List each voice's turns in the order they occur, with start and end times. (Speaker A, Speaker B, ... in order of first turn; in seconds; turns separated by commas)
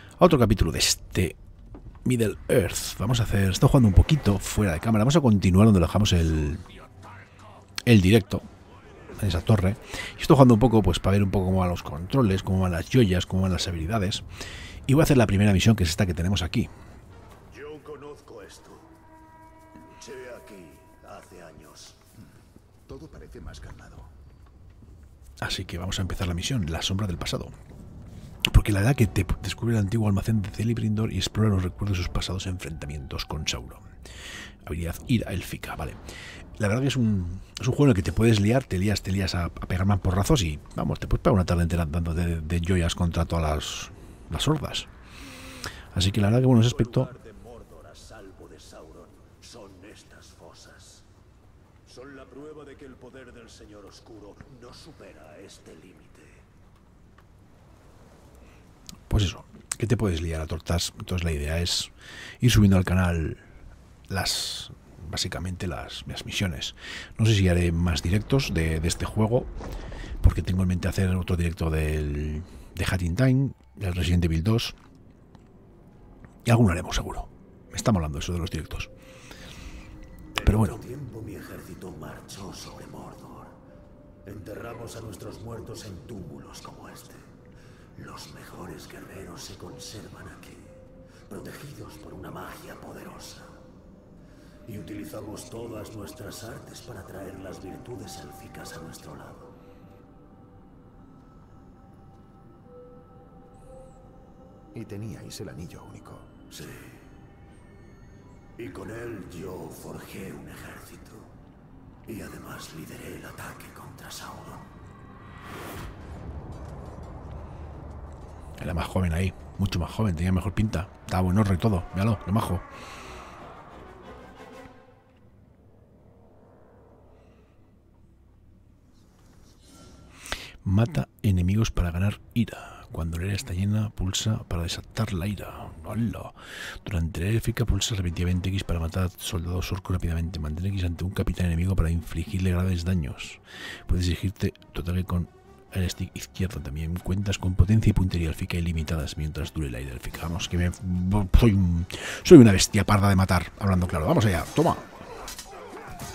Speaker A: 0.2-1.4, Speaker A: 2.0-6.6, Speaker A: 7.8-8.5, Speaker A: 9.2-14.2, Speaker A: 14.9-16.7, Speaker B: 17.5-18.9, Speaker B: 19.9-22.1, Speaker C: 22.9-24.1, Speaker A: 25.4-27.5, Speaker A: 28.5-33.8, Speaker A: 34.6-36.0, Speaker A: 36.6-44.9, Speaker A: 45.9-47.1, Speaker B: 46.6-51.0, Speaker B: 51.9-56.4, Speaker A: 59.1-63.4, Speaker A: 64.1-69.5, Speaker A: 70.2-74.8, Speaker A: 76.4-78.9, Speaker B: 80.3-83.6, Speaker A: 80.4-80.8, Speaker B: 84.2-87.3, Speaker B: 88.0-93.5, Speaker B: 94.7-99.6, Speaker C: 104.7-106.4, Speaker B: 106.5-107.0, Speaker B: 108.6-111.3, Speaker B: 112.1-114.7, Speaker A: 118.6-122.6, Speaker A: 130.6-154.8